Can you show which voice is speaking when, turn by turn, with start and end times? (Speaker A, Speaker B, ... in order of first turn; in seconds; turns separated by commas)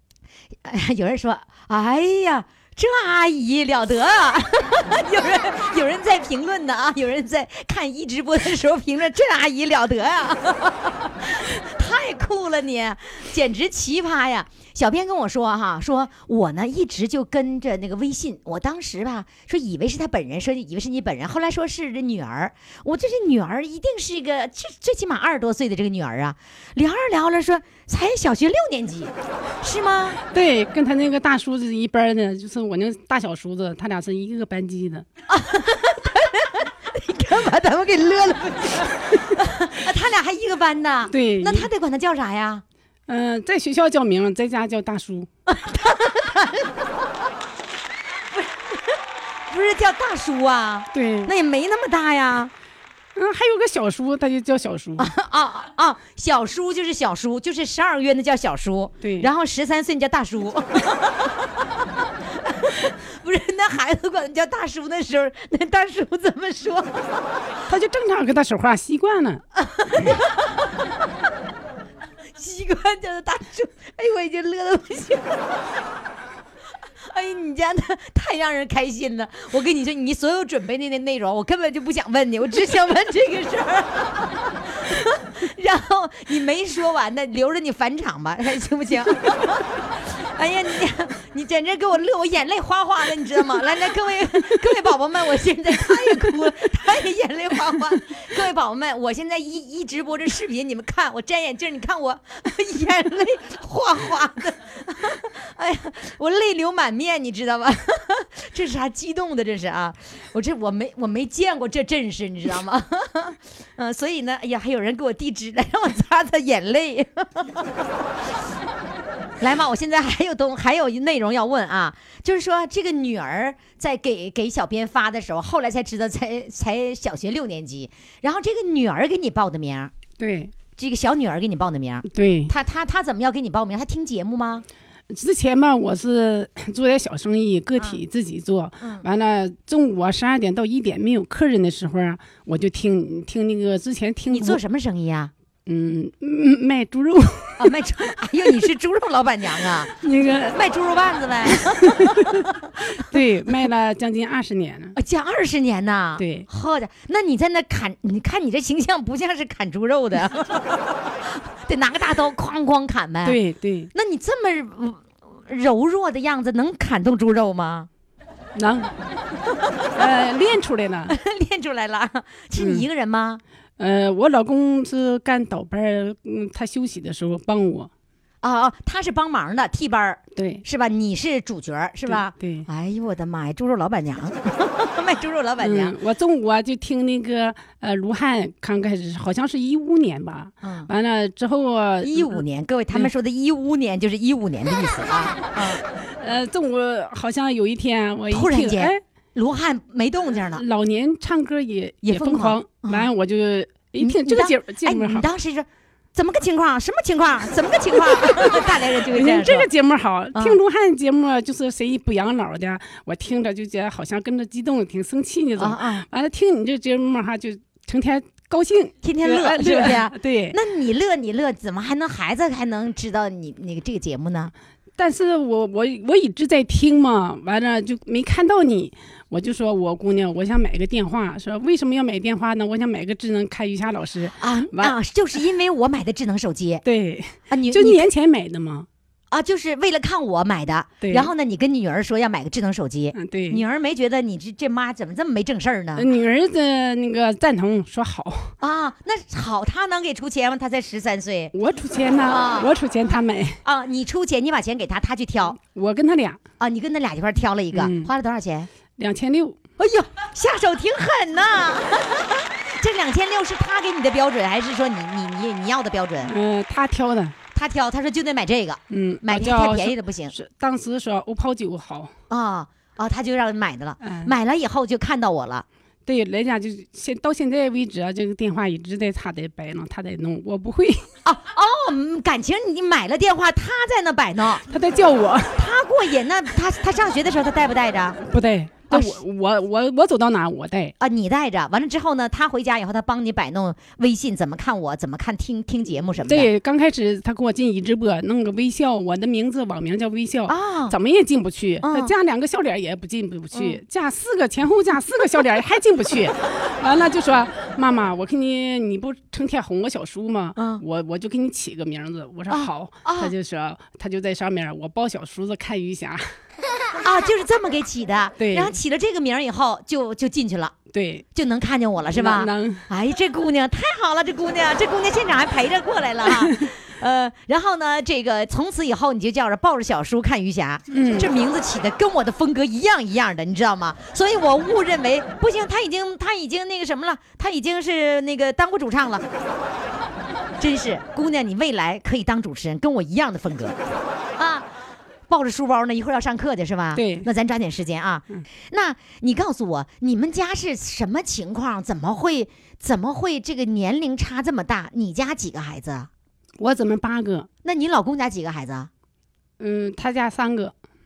Speaker A: 0.6-30.2, Speaker B: 30.3-35.0, Speaker A: 35.3-42.6, Speaker B: 41.1-41.7, Speaker B: 43.1-45.3, Speaker A: 45.5-46.8, Speaker A: 48.3-49.0, Speaker A: 49.5-52.5, Speaker B: 50.9-51.3, Speaker B: 53.1-55.1, Speaker A: 55.0-61.5, Speaker B: 59.0-59.3, Speaker A: 62.4-67.2, Speaker B: 67.7-69.4, Speaker A: 69.5-70.8, Speaker A: 72.4-75.6, Speaker A: 77.1-117.6, Speaker A: 119.4-129.9, Speaker B: 130.2-130.5, Speaker A: 130.8-134.6, Speaker B: 132.1-132.5, Speaker B: 135.1-144.6, Speaker A: 144.3-145.3, Speaker B: 145.7-147.7, Speaker A: 147.6-149.9, Speaker B: 150.0-150.6, Speaker A: 150.5-152.4, Speaker B: 151.5-152.4, Speaker B: 152.9-154.9, Speaker A: 154.9-163.4, Speaker B: 156.2-156.5, Speaker B: 163.2-163.9, Speaker A: 163.9-167.9, Speaker B: 168.5-168.9, Speaker B: 169.9-171.1, Speaker A: 171.1-173.4, Speaker B: 172.6-172.9, Speaker B: 173.8-177.9, Speaker A: 178.4-185.9, Speaker B: 180.3-180.6, Speaker B: 182.1-182.7, Speaker B: 185.6-193.1, Speaker A: 190.6-190.9, Speaker A: 192.0-195.8, Speaker B: 196.2-199.0, Speaker A: 198.3-200.6, Speaker B: 200.5-205.3, Speaker A: 202.0-203.1, Speaker A: 204.0-209.7, Speaker B: 208.0-220.6, Speaker A: 215.6-216.0, Speaker A: 219.0-224.5, Speaker B: 225.0-234.9, Speaker A: 234.4-236.8, Speaker B: 236.8-238.9, Speaker A: 237.5-238.1, Speaker A: 239.3-246.1, Speaker B: 241.0-241.3, Speaker B: 243.1-243.6, Speaker B: 245.9-248.5, Speaker A: 248.6-251.5, Speaker B: 251.5-253.6, Speaker A: 252.3-252.7, Speaker A: 253.6-255.6, Speaker B: 255.6-256.4, Speaker A: 256.6-258.7, Speaker B: 257.7-258.1, Speaker B: 259.0-259.6, Speaker A: 259.8-266.3, Speaker B: 266.2-267.3, Speaker A: 267.5-270.3, Speaker B: 268.9-272.1, Speaker A: 272.3-275.6, Speaker B: 274.0-274.3, Speaker B: 276.1-281.1, Speaker A: 281.2-284.6, Speaker B: 284.7-285.6, Speaker A: 285.6-288.2, Speaker B: 288.2-290.9, Speaker A: 291.0-296.5, Speaker B: 296.2-316.2, Speaker A: 300.5-300.9, Speaker A: 301.8-302.1, Speaker A: 303.5-303.8, Speaker A: 310.6-310.8, Speaker A: 312.5-313.3, Speaker A: 317.0-320.7, Speaker B: 318.4-318.8, Speaker B: 320.9-321.2, Speaker A: 321.3-339.2, Speaker B: 322.1-322.9, Speaker B: 326.4-326.7, Speaker B: 330.9-331.3, Speaker A: 340.6-343.8, Speaker A: 344.4-344.6, Speaker A: 345.3-356.1, Speaker B: 346.9-347.3, Speaker B: 356.6-357.5, Speaker A: 357.6-358.9, Speaker B: 359.6-360.7